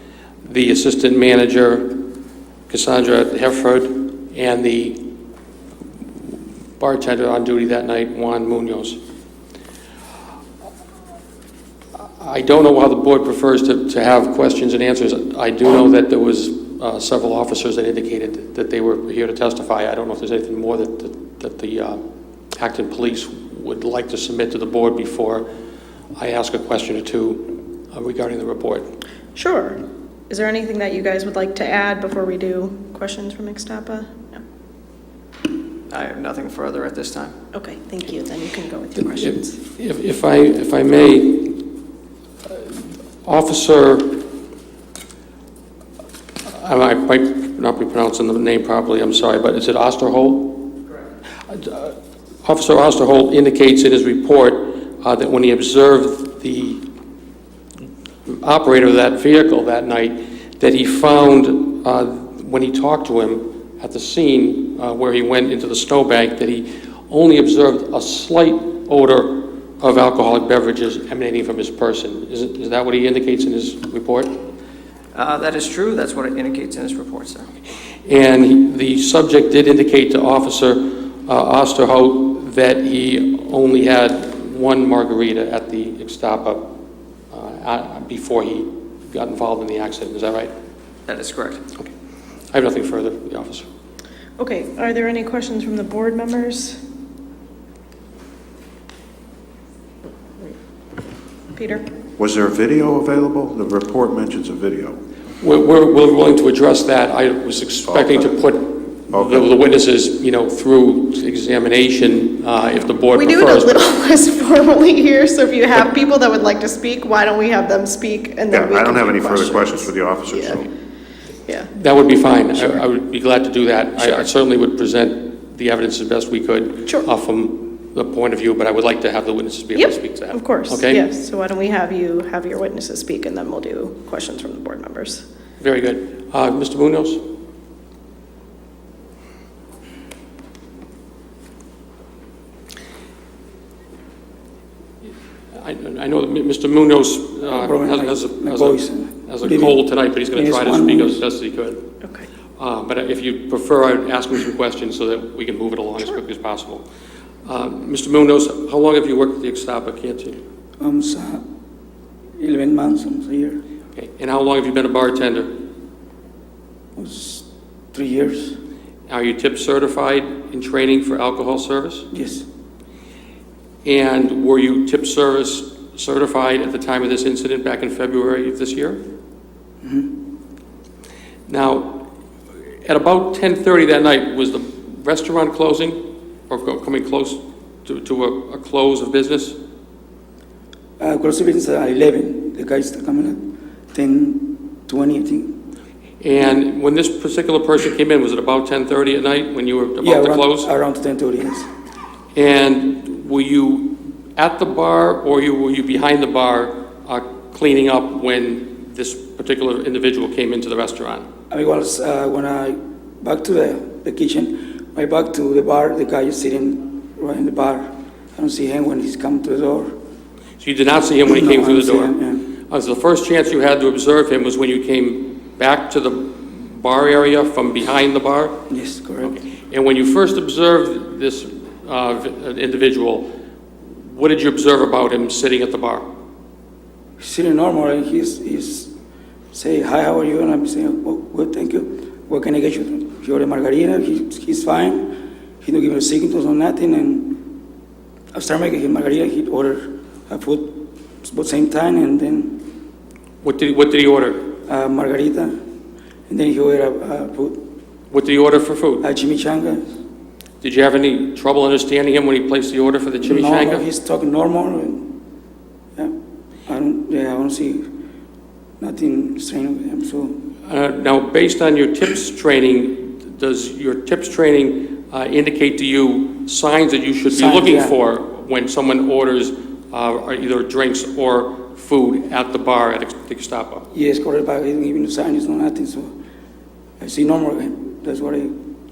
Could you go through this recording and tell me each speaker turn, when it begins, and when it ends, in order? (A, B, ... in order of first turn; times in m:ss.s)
0:00.4-0:02.1 A
0:02.7-0:05.1 A
0:06.8-0:09.0 A
0:12.0-0:22.0 A
0:22.6-0:25.5 A
0:26.2-0:28.9 A
0:29.3-0:34.4 B
0:35.9-0:37.3 C
0:37.5-0:39.6 B
0:39.2-0:41.7 A
0:43.2-0:44.2 A
0:46.5-0:50.7 A
0:51.5-0:56.8 A
0:58.3-1:14.4 A
1:15.1-1:17.5 C
1:18.0-1:30.5 A
1:31.1-1:31.6 C
1:32.5-1:33.6 A
1:34.4-1:36.8 B
1:41.5-1:41.8 B
1:42.2-1:45.0 D
1:45.4-1:53.8 A
1:47.8-1:48.4 D
1:49.1-1:49.5 D
1:53.1-2:00.7 B
1:58.5-2:00.7 D
2:01.7-2:11.0 A
2:09.7-2:15.2 B
2:15.6-2:17.2 A
2:25.5-2:31.8 A
2:27.4-2:31.2 E
2:32.6-2:36.8 A
2:37.4-2:40.4 A
2:40.8-2:41.4 E
2:42.4-2:43.6 E
2:43.9-2:45.5 A
2:47.0-2:48.6 E
2:49.1-2:52.1 A
2:52.1-2:52.4 E
2:53.8-2:59.0 A
2:59.8-3:00.2 E
3:01.5-3:02.0 A
3:02.8-3:09.6 A
3:11.0-3:15.6 E
3:16.2-3:20.7 A
3:20.0-3:21.7 E
3:22.3-3:31.2 A
3:31.5-3:39.9 E
3:40.6-3:42.2 A
3:41.2-3:42.5 E
3:42.7-3:48.6 A
3:48.7-3:49.4 E
3:49.2-3:53.3 A
3:54.0-3:56.1 A
3:57.2-3:58.9 E
3:59.5-4:07.4 E
4:08.3-4:12.6 E
4:13.4-4:14.4 A
4:14.7-4:15.6 E
4:16.3-4:17.6 E
4:18.1-4:19.0 A
4:19.0-4:19.9 E
4:20.6-4:23.8 A
4:23.2-4:25.1 E
4:26.7-4:27.8 E
4:28.8-4:30.4 E
4:30.6-4:43.9 A
4:37.3-4:38.0 E
4:43.9-4:46.1 E
4:47.0-4:48.5 E